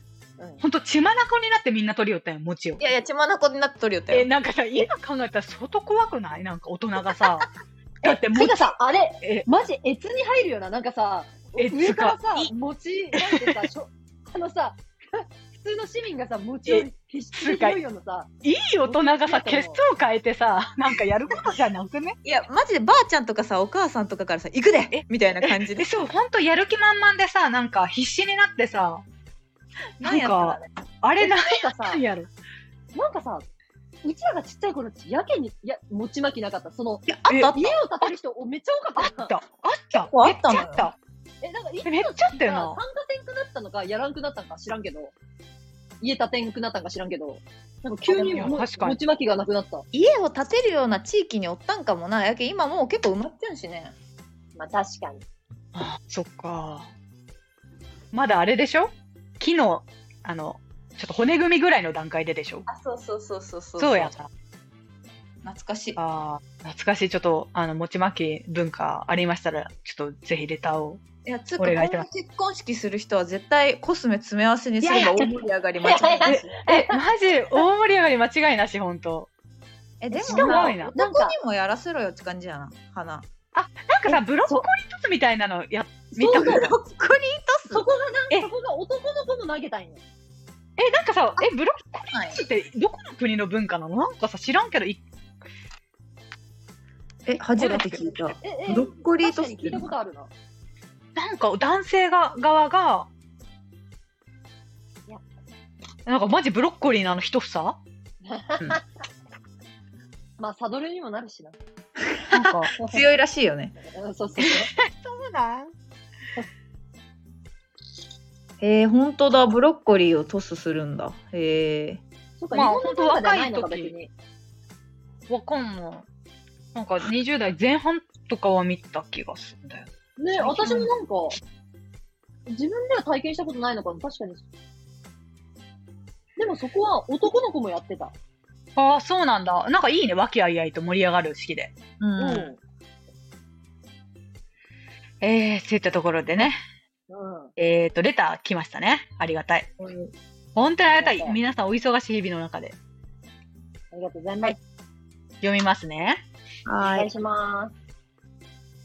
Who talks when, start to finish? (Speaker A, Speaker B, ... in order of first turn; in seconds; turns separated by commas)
Speaker A: 0.6-2.8, Speaker B: 2.8-4.3, Speaker A: 4.1-7.5, Speaker A: 8.0-9.5, Speaker C: 8.0-18.3, Speaker A: 11.6-12.5, Speaker A: 13.2-13.5, Speaker A: 16.7-17.8, Speaker A: 18.4-22.2, Speaker C: 18.9-19.8, Speaker B: 22.2-25.9, Speaker A: 24.9-29.0, Speaker B: 30.0-30.7, Speaker A: 30.0-32.3, Speaker C: 31.2-32.0, Speaker C: 33.0-33.5, Speaker C: 34.0-39.3, Speaker B: 37.1-37.8, Speaker A: 39.0-41.0, Speaker B: 40.0-40.9, Speaker C: 41.4-45.1, Speaker A: 41.9-42.8, Speaker C: 46.0-49.9, Speaker B: 48.1-48.6, Speaker A: 48.4-49.0, Speaker B: 49.9-53.9, Speaker C: 54.6-55.2, Speaker A: 55.8-56.9, Speaker A: 58.1-62.7, Speaker B: 62.7-64.1, Speaker A: 63.8-64.3, Speaker B: 65.4-66.0, Speaker A: 66.0-71.0, Speaker B: 71.2-76.5, Speaker A: 71.6-72.1, Speaker A: 74.9-75.1, Speaker C: 74.9-75.2, Speaker C: 75.8-77.0, Speaker A: 76.3-79.3, Speaker B: 80.0-83.3, Speaker C: 80.1-81.3, Speaker A: 80.2-80.9, Speaker A: 83.5-86.7, Speaker C: 84.1-84.7, Speaker C: 86.2-86.7, Speaker B: 86.3-87.8, Speaker C: 87.7-90.0, Speaker A: 90.8-95.0, Speaker B: 92.1-92.4, Speaker B: 97.3-99.9, Speaker C: 97.6-100.3, Speaker A: 101.2-103.1, Speaker A: 106.1-107.8, Speaker C: 108.2-108.8, Speaker C: 110.4-111.6, Speaker B: 112.0-113.8, Speaker A: 112.3-112.7, Speaker C: 112.8-113.0, Speaker C: 113.8-114.7, Speaker A: 114.4-115.7, Speaker B: 118.6-122.0, Speaker C: 122.4-124.1, Speaker A: 122.5-123.9, Speaker A: 125.3-126.1, Speaker A: 126.8-129.9, Speaker C: 130.2-131.4, Speaker B: 130.4-130.9, Speaker C: 132.5-134.4, Speaker C: 136.4-138.2, Speaker A: 138.8-141.8, Speaker B: 142.0-142.5, Speaker C: 142.2-142.6, Speaker A: 145.2-146.6, Speaker C: 147.1-147.5, Speaker A: 147.6-149.7, Speaker B: 149.8-150.1, Speaker A: 150.6-152.8, Speaker C: 150.9-151.4, Speaker C: 153.9-154.6, Speaker A: 155.4-156.2, Speaker B: 156.7-157.1, Speaker C: 156.8-157.7